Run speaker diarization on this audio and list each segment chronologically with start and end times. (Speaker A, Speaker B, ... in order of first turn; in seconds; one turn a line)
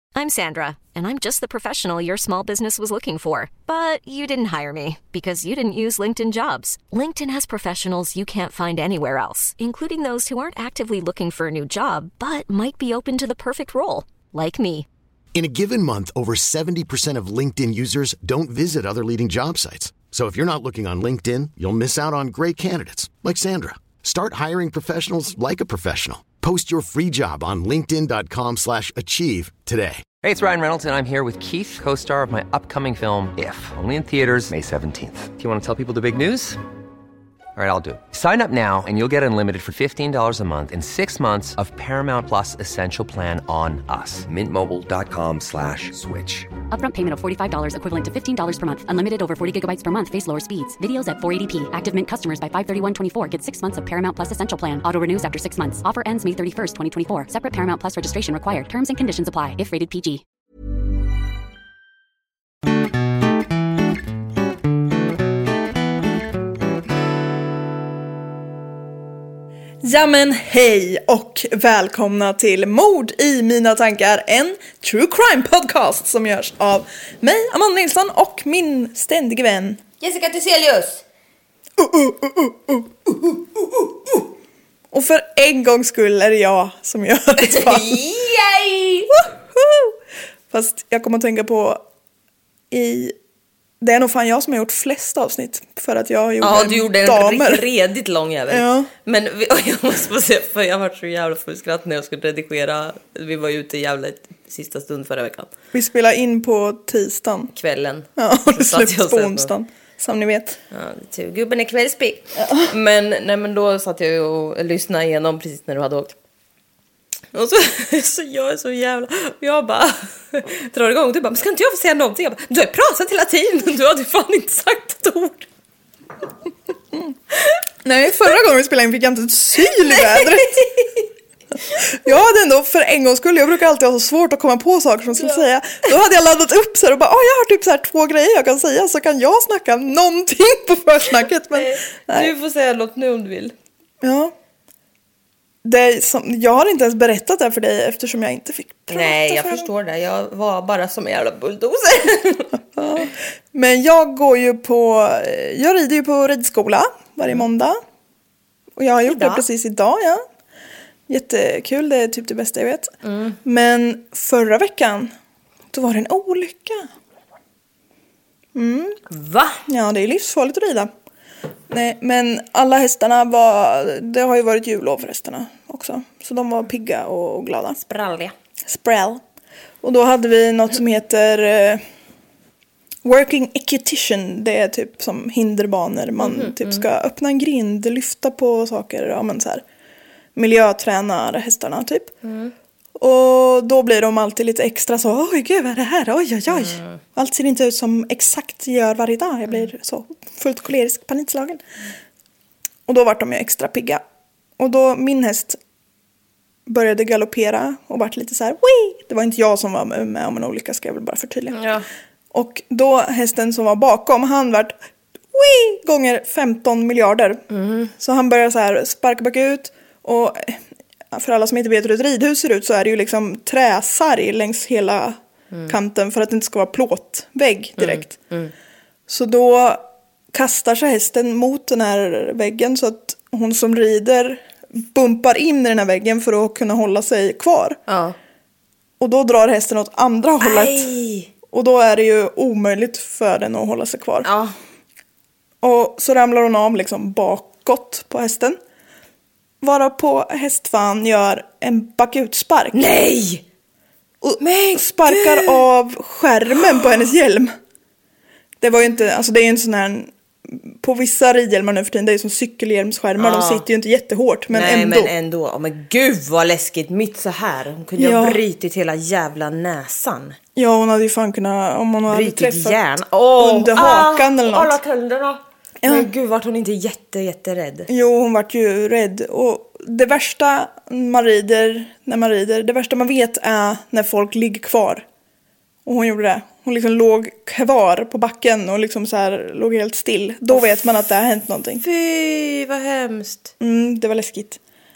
Speaker A: 0.1-14.9
Speaker B: 15.3-30.0
Speaker C: 30.2-36.6
Speaker C: 37.5-46.5
Speaker D: 46.7-60.2
Speaker E: 69.8-79.8
Speaker F: 80.0-81.0
Speaker E: 81.8-82.9
Speaker E: 84.9-88.0
Speaker F: 87.4-89.2
Speaker E: 89.1-90.0
Speaker E: 90.5-91.8
Speaker E: 92.7-93.2
Speaker E: 93.8-97.6
Speaker F: 96.4-105.5
Speaker E: 98.5-98.9
Speaker E: 105.7-107.5
Speaker F: 107.5-109.5
Speaker E: 108.2-110.6
Speaker F: 110.7-116.2
Speaker E: 112.4-112.7
Speaker F: 117.3-125.5
Speaker E: 127.8-130.6
Speaker F: 129.6-131.1
Speaker E: 131.8-142.3
Speaker F: 141.5-143.5
Speaker E: 144.0-144.3
Speaker E: 145.6-149.7
Speaker F: 148.9-152.6
Speaker E: 152.8-157.8
Speaker E: 158.8-160.2
Speaker F: 159.1-159.4
Speaker E: 161.1-165.1
Speaker F: 163.0-163.4
Speaker E: 165.7-166.9
Speaker E: 168.5-169.0
Speaker F: 169.1-169.6
Speaker E: 169.7-170.9
Speaker E: 171.7-177.8
Speaker F: 177.8-178.3
Speaker E: 178.7-179.2
Speaker E: 179.8-181.8
Speaker E: 183.0-189.6
Speaker F: 186.2-186.8
Speaker E: 190.3-192.1
Speaker F: 192.2-192.5
Speaker E: 193.0-201.6
Speaker F: 196.5-197.0
Speaker E: 202.9-204.0
Speaker E: 204.6-205.6
Speaker E: 206.7-211.7
Speaker F: 211.5-211.8
Speaker E: 212.3-214.8
Speaker E: 215.3-217.4
Speaker F: 217.5-217.9
Speaker E: 218.0-228.1
Speaker F: 225.5-225.8
Speaker F: 227.8-228.5
Speaker E: 229.1-237.8
Speaker F: 237.9-238.2
Speaker E: 239.0-240.9
Speaker F: 240.4-241.3
Speaker E: 241.5-244.3
Speaker F: 244.2-244.6
Speaker E: 245.6-248.6
Speaker E: 249.6-252.9
Speaker F: 252.7-253.4
Speaker E: 254.2-257.6
Speaker F: 254.4-255.7
Speaker E: 258.6-265.1
Speaker F: 263.2-263.6
Speaker F: 264.5-270.4
Speaker E: 268.0-268.4
Speaker E: 270.6-272.8
Speaker F: 272.1-277.9
Speaker E: 273.4-274.8
Speaker E: 275.8-276.1
Speaker E: 277.9-285.1
Speaker E: 285.8-291.8
Speaker F: 290.5-291.0
Speaker F: 291.8-293.5
Speaker E: 293.6-294.6